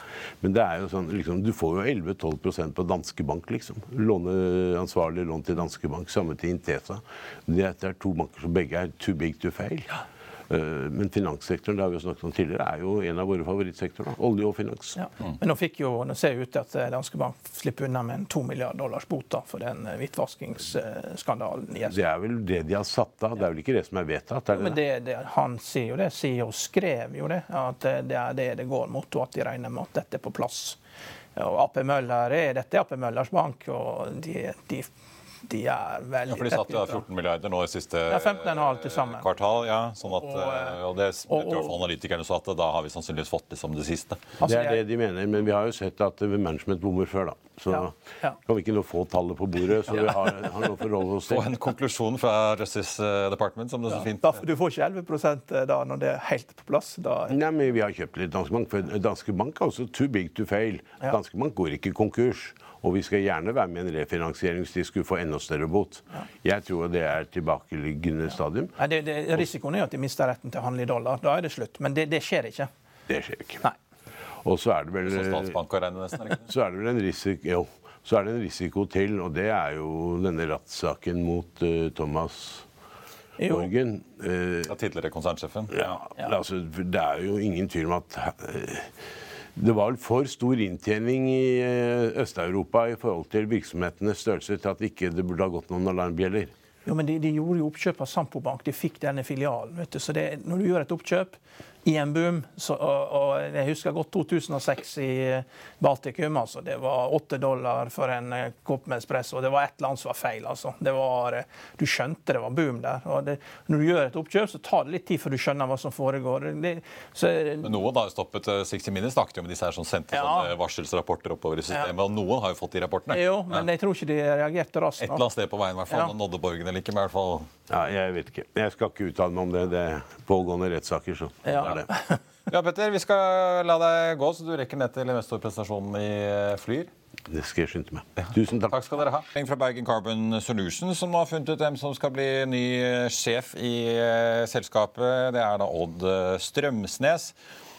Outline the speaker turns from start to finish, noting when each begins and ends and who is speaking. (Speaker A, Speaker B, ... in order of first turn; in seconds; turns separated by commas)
Speaker A: 0.4-10.0, Speaker A: 10.5-15.0, Speaker B: 14.9-22.0, Speaker A: 21.9-24.8, Speaker B: 24.5-30.8, Speaker B: 31.4-34.9, Speaker B: 35.5-37.0, Speaker C: 36.3-44.4, Speaker B: 38.1-39.3, Speaker B: 40.0-40.8, Speaker B: 41.3-41.7, Speaker B: 44.4-44.8, Speaker A: 44.4-47.9, Speaker B: 47.7-48.4, Speaker A: 48.4-51.5, Speaker C: 51.3-54.4, Speaker B: 53.9-57.4, Speaker A: 57.3-68.7, Speaker B: 68.8-72.7, Speaker A: 73.1-73.6, Speaker A: 74.4-75.6, Speaker C: 75.0-76.5, Speaker A: 76.4-82.6, Speaker B: 83.4-83.7, Speaker A: 83.5-84.7, Speaker C: 84.7-86.0, Speaker A: 85.7-88.9, Speaker A: 89.5-96.5, Speaker B: 96.8-117.7, Speaker C: 117.6-123.7, Speaker B: 120.1-120.5, Speaker B: 123.1-125.2, Speaker C: 125.0-127.5, Speaker A: 127.7-131.9, Speaker B: 131.5-132.2, Speaker C: 132.5-136.9, Speaker A: 137.3-138.8, Speaker C: 138.2-147.3